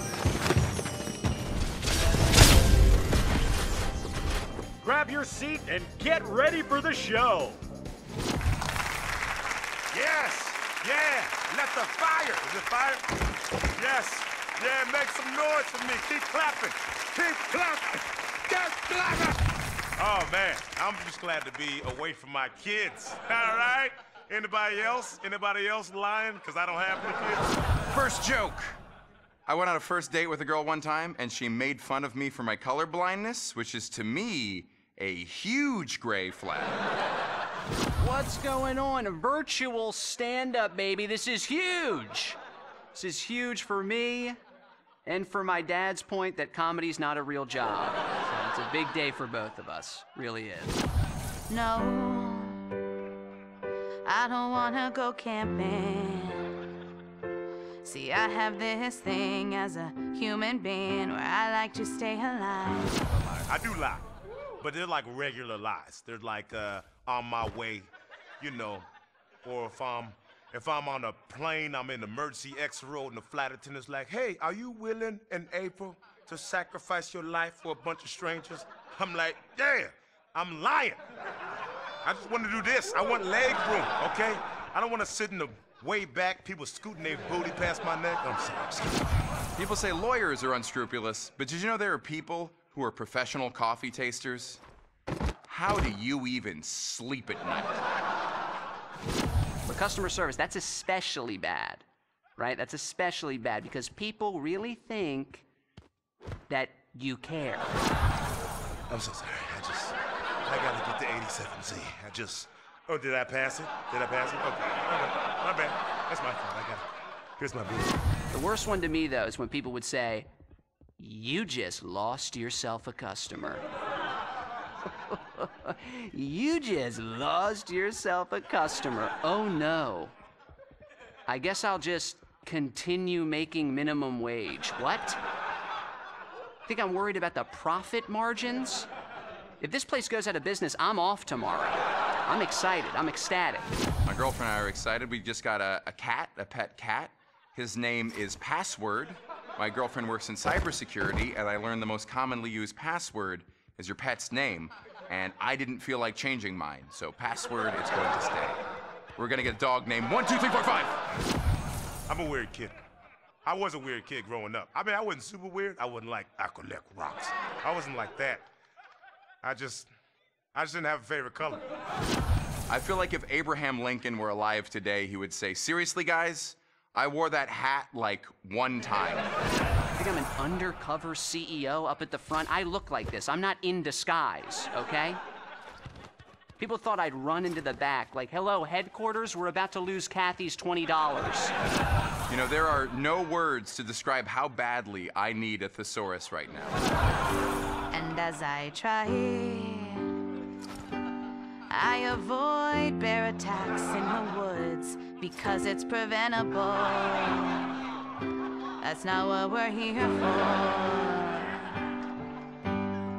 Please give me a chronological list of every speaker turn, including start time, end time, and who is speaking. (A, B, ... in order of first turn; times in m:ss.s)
0:04.8-0:07.6 A
0:09.9-0:13.0 B
0:13.7-0:19.0 B
0:20.0-0:27.5 B
0:27.9-0:28.8 C
0:29.4-0:36.8 C
0:38.0-0:42.4 D
0:42.9-0:44.4 D
0:45.0-0:50.8 D
0:51.5-0:52.6 E
0:54.0-0:56.5 E
0:57.8-1:03.0 E
1:03.1-1:04.0 B
1:04.6-1:08.9 B
1:09.4-1:21.0 B
1:22.0-1:29.0 B
1:29.6-1:34.6 C
1:35.4-1:37.8 C
1:39.6-1:41.8 D
1:42.4-1:45.4 D
1:46.5-1:47.7 D
1:48.9-1:56.8 B
1:57.4-1:57.9 B
1:58.3-2:00.3 D
2:01.0-2:03.6 D
2:05.1-2:10.2 D
2:11.3-2:15.2 D
2:16.6-2:18.9 D
2:19.6-2:23.7 D
2:24.0-2:38.6 C
2:39.2-2:41.0 C
2:42.1-2:42.8 B
2:43.4-2:48.4 B
2:49.4-2:49.9 B
2:50.5-2:51.6 B
2:52.7-2:59.3 C
2:59.9-3:05.2 D
3:06.6-3:11.5 D
3:12.3-3:16.9 C
3:17.9-3:20.1 E
3:21.7-3:27.8 E
3:28.8-3:31.8 E